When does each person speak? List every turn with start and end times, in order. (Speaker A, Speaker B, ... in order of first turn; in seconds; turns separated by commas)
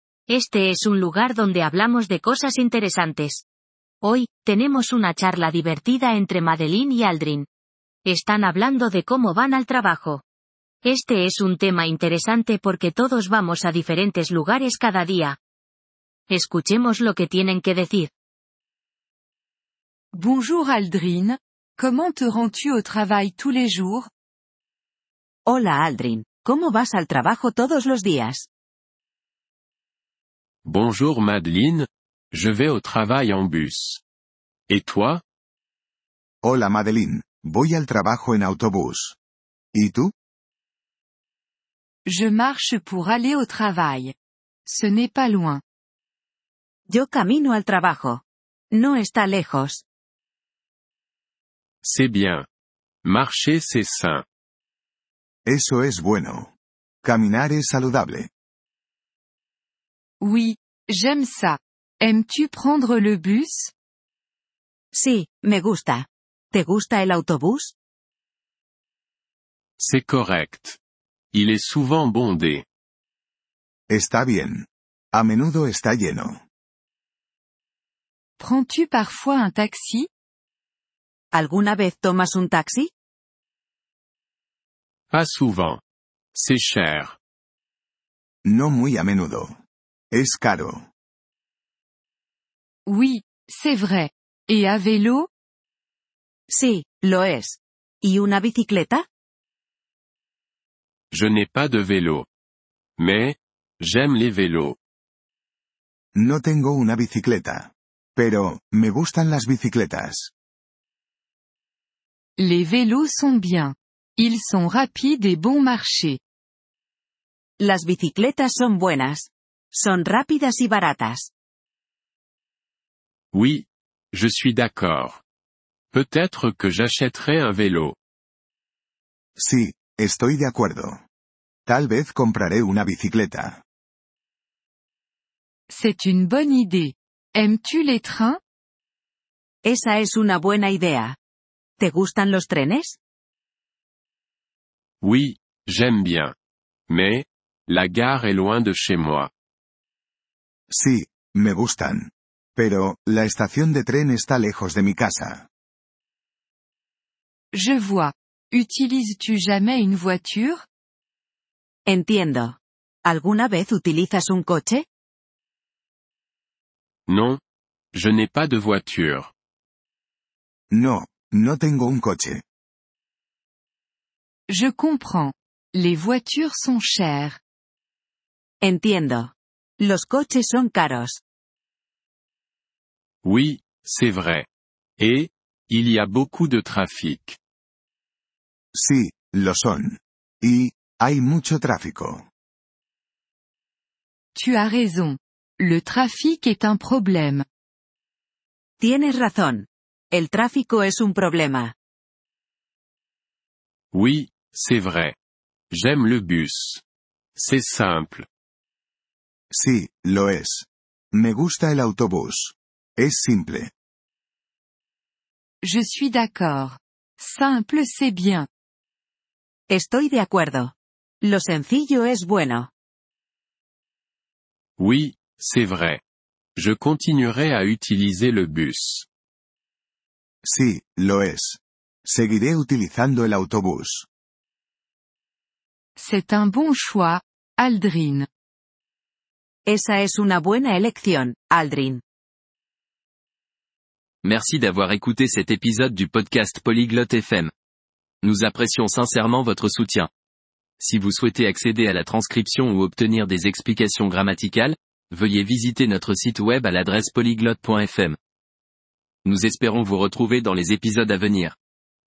Speaker A: 0.3-3.4, Speaker A: 4.0-7.5, Speaker A: 8.0-10.2, Speaker A: 10.8-15.4, Speaker A: 16.3-18.1, Speaker B: 20.1-24.1, Speaker C: 25.4-28.4, Speaker D: 30.6-34.0, Speaker D: 34.7-35.2, Speaker E: 36.4-39.1, Speaker E: 39.7-40.1, Speaker B: 42.0-44.1, Speaker B: 44.6-45.6, Speaker C: 46.9-49.8, Speaker D: 51.8-52.5, Speaker D: 53.0-54.2, Speaker E: 55.5-56.5, Speaker E: 57.0-58.3, Speaker B: 60.2-63.7, Speaker C: 64.9-67.7, Speaker D: 69.8-70.8, Speaker D: 71.3-72.6, Speaker E: 73.9-76.4, Speaker B: 78.4-80.1, Speaker C: 81.3-82.9, Speaker D: 85.1-85.8, Speaker D: 86.3-87.2, Speaker E: 88.4-89.6, Speaker E: 90.1-90.9, Speaker B: 92.8-95.3, Speaker C: 96.5-99.0, Speaker D: 101.1-102.3, Speaker D: 103.0-104.8, Speaker E: 106.1-110.3, Speaker B: 112.4-116.2, Speaker C: 117.6-121.3, Speaker D: 123.3-125.2, Speaker D: 125.9-128.0, Speaker E: 129.3-131.0, Speaker E: 131.7-133.6, Speaker B: 135.7-138.4, Speaker C: 139.6-141.2, Speaker C: 141.8-143.0, Speaker D: 145.0-146.3, Speaker D: 146.9-149.3, Speaker E: 150.7-155.5, Speaker B: 157.5-160.6, Speaker C: 161.8-164.8, Speaker D: 167.1-167.4, Speaker D: 167.9-169.3, Speaker E: 170.7-172.4, Speaker B: 174.5-177.4, Speaker C: 178.6-181.2, Speaker D: 183.2-184.4, Speaker D: 185.0-187.4, Speaker E: 188.7-192.3, Speaker B: 194.3-197.4, Speaker C: 198.8-201.7, Speaker D: 203.9-205.1, Speaker D: 205.7-206.8, Speaker D: 207.3-208.2, Speaker E: 209.5-213.7, Speaker B: 215.6-218.5, Speaker C: 219.7-222.7, Speaker D: 224.8-226.0, Speaker D: 226.6-229.1, Speaker E: 230.4-234.1, Speaker B: 236.0-238.3, Speaker C: 239.7-242.0, Speaker F: 244.2-247.5, Speaker F: 248.2-250.1, Speaker F: 250.8-258.2, Speaker F: 259.2-261.6